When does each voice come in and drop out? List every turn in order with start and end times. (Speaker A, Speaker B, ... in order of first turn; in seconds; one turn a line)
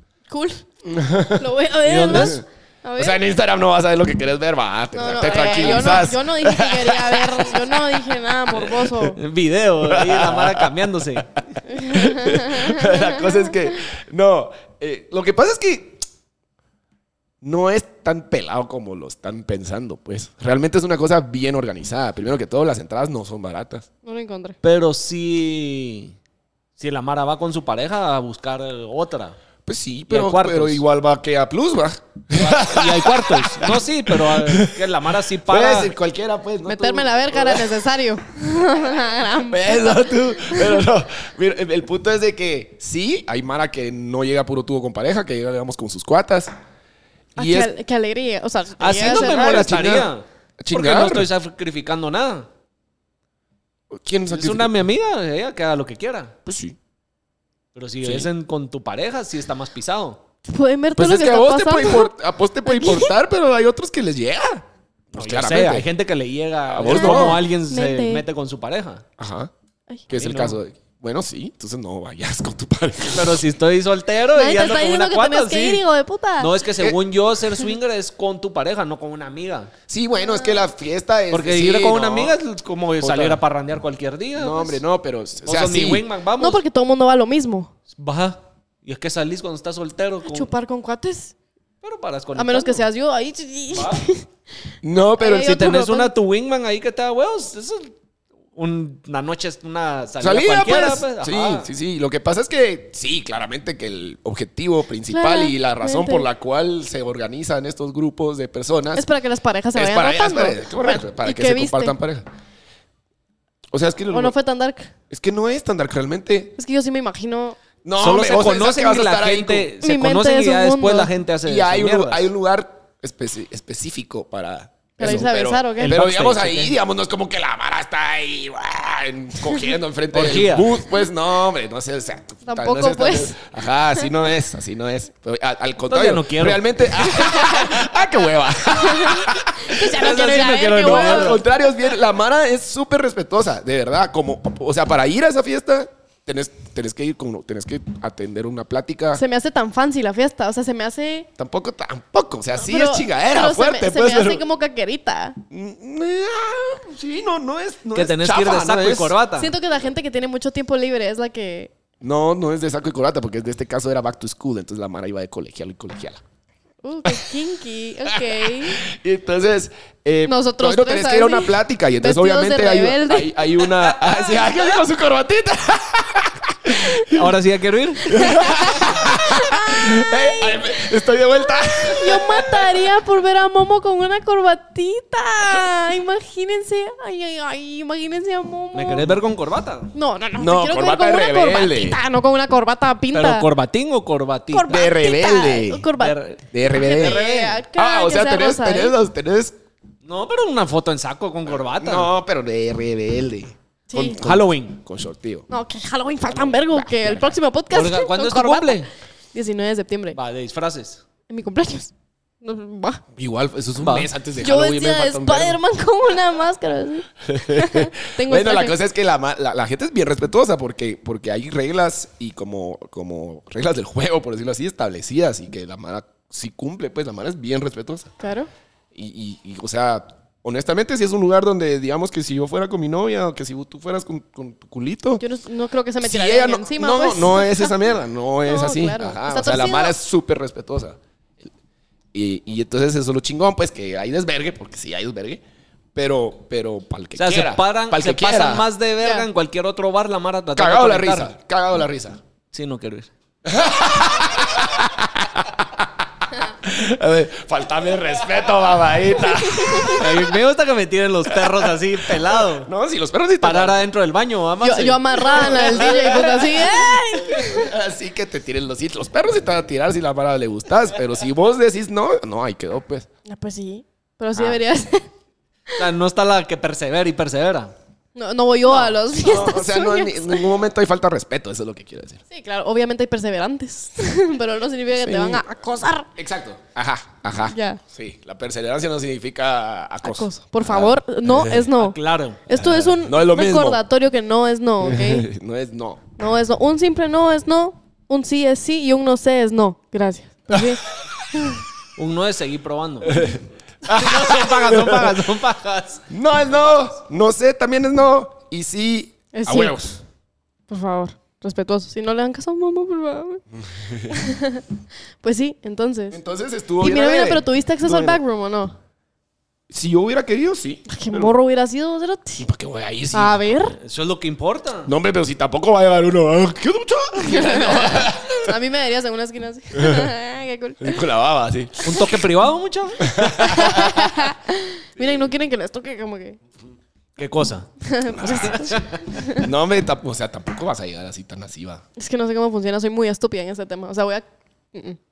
Speaker A: 0.3-0.6
Speaker B: 0.8-1.5
Speaker A: 1.4-3.2
Speaker C: 1.9-2.4
Speaker B: 2.1-2.4
Speaker B: 3.0-8.8
Speaker A: 4.9-9.2
Speaker C: 9.1-11.3
Speaker B: 9.8-16.0
Speaker A: 11.7-13.5
Speaker B: 17.4-23.9
Speaker A: 24.0-24.6
Speaker C: 24.6-26.1
Speaker C: 26.8-29.3
Speaker B: 29.6-34.9
Speaker C: 30.1-30.8
Speaker C: 32.3-35.9
Speaker B: 35.4-37.8
Speaker A: 36.6-40.8
Speaker B: 39.5-46.5
Speaker B: 47.4-47.7
Speaker A: 47.4-49.6
Speaker C: 48.8-52.5
Speaker B: 49.0-51.3
Speaker B: 53.9-54.7
Speaker C: 54.3-56.3
Speaker B: 56.5-56.8
Speaker C: 57.7-60.2
Speaker B: 58.0-58.3
Speaker A: 60.5-62.1
Speaker B: 61.0-65.8
Speaker A: 62.6-63.1
Speaker C: 65.1-69.0
Speaker B: 66.7-67.4
Speaker A: 66.9-68.2
Speaker B: 69.2-69.5
Speaker B: 70.1-73.4
Speaker C: 70.1-70.6
Speaker C: 73.1-75.8
Speaker A: 74.3-76.5
Speaker C: 76.4-79.7
Speaker B: 79.9-82.3
Speaker A: 80.2-80.6
Speaker C: 81.3-84.8
Speaker B: 83.0-83.4
Speaker B: 84.3-86.0
Speaker C: 85.4-86.6
Speaker A: 86.4-87.7
Speaker C: 87.9-90.5
Speaker A: 90.2-91.3
Speaker C: 91.8-92.8
Speaker A: 92.3-94.2
Speaker C: 93.7-94.0
Speaker B: 94.8-95.8
Speaker A: 95.2-96.1
Speaker C: 95.4-97.9
Speaker C: 98.5-101.7
Speaker B: 100.2-109.0
Speaker A: 105.1-106.3
Speaker A: 108.9-112.0
Speaker B: 109.7-112.2
Speaker B: 113.7-114.3
Speaker A: 114.1-114.9
Speaker B: 115.1-116.5
Speaker A: 116.6-117.6
Speaker B: 117.8-119.7
Speaker C: 118.0-122.3
Speaker A: 119.8-121.1
Speaker B: 121.4-149.2
Speaker A: 125.0-126.0
Speaker C: 125.0-126.8
Speaker C: 130.1-130.8
Speaker A: 132.4-133.3
Speaker C: 135.9-137.0
Speaker A: 137.1-137.8
Speaker A: 138.7-141.4
Speaker C: 139.8-141.4
Speaker A: 149.1-151.3
Speaker B: 151.4-154.4
Speaker A: 152.6-155.4
Speaker B: 155.5-159.2
Speaker C: 157.9-159.5
Speaker A: 159.3-161.7
Speaker B: 162.0-166.2
Speaker A: 166.8-168.8
Speaker B: 168.1-177.2
Speaker A: 170.2-174.1
Speaker C: 177.1-178.3
Speaker A: 178.1-180.6
Speaker B: 178.1-182.9
Speaker A: 182.0-189.1
Speaker C: 188.7-189.9
Speaker A: 189.9-193.5
Speaker B: 190.3-192.0
Speaker C: 193.1-194.9
Speaker A: 194.5-198.9
Speaker B: 194.7-195.8
Speaker C: 196.0-196.4
Speaker B: 196.5-199.5
Speaker C: 196.9-197.6
Speaker C: 200.0-202.1
Speaker B: 201.8-205.5
Speaker A: 203.9-204.2
Speaker C: 204.2-204.8
Speaker A: 205.5-210.2
Speaker B: 206.3-207.3
Speaker C: 207.7-208.9
Speaker C: 210.1-211.0
Speaker A: 211.3-211.9
Speaker A: 212.4-213.0
Speaker B: 213.1-215.6
Speaker C: 213.8-214.1
Speaker A: 214.4-218.8
Speaker B: 217.2-228.1
Speaker A: 228.2-228.5
Speaker B: 228.9-235.2
Speaker A: 235.2-237.8
Speaker B: 236.0-241.0
Speaker A: 238.4-239.9
Speaker B: 242.1-245.4
Speaker B: 245.9-248.7
Speaker C: 247.2-251.3
Speaker B: 250.6-252.2
Speaker C: 252.5-253.1
Speaker B: 253.4-260.3
Speaker A: 259.5-259.9
Speaker C: 259.9-262.7
Speaker B: 261.3-263.8
Speaker C: 263.4-265.8
Speaker A: 264.6-267.7
Speaker B: 265.2-273.1
Speaker A: 273.2-275.1
Speaker C: 275.8-277.7
Speaker A: 278.1-280.5
Speaker B: 279.1-282.2
Speaker A: 282.3-286.1
Speaker B: 284.9-285.4
Speaker B: 286.1-291.7
Speaker A: 287.5-287.8
Speaker A: 290.0-295.2
Speaker C: 291.7-292.4
Speaker B: 292.6-293.8
Speaker B: 294.8-296.0
Speaker A: 296.2-300.8
Speaker C: 301.9-306.1
Speaker B: 303.1-305.2
Speaker B: 306.1-310.0
Speaker A: 309.3-309.8
Speaker A: 310.7-313.4
Speaker B: 313.5-314.2
Speaker A: 314.1-314.6
Speaker A: 315.2-316.2
Speaker B: 316.1-318.2
Speaker A: 316.8-318.8
Speaker B: 319.7-321.3
Speaker A: 320.9-322.4
Speaker B: 322.4-323.4
Speaker A: 323.1-323.8
Speaker C: 323.8-324.9
Speaker B: 324.9-328.5
Speaker A: 327.2-331.0
Speaker B: 329.7-330.1
Speaker B: 330.8-332.1
Speaker C: 331.8-333.1
Speaker B: 333.0-334.0
Speaker A: 333.3-336.4
Speaker C: 337.2-337.7
Speaker A: 337.8-339.4
Speaker B: 338.1-341.8
Speaker A: 342.0-345.0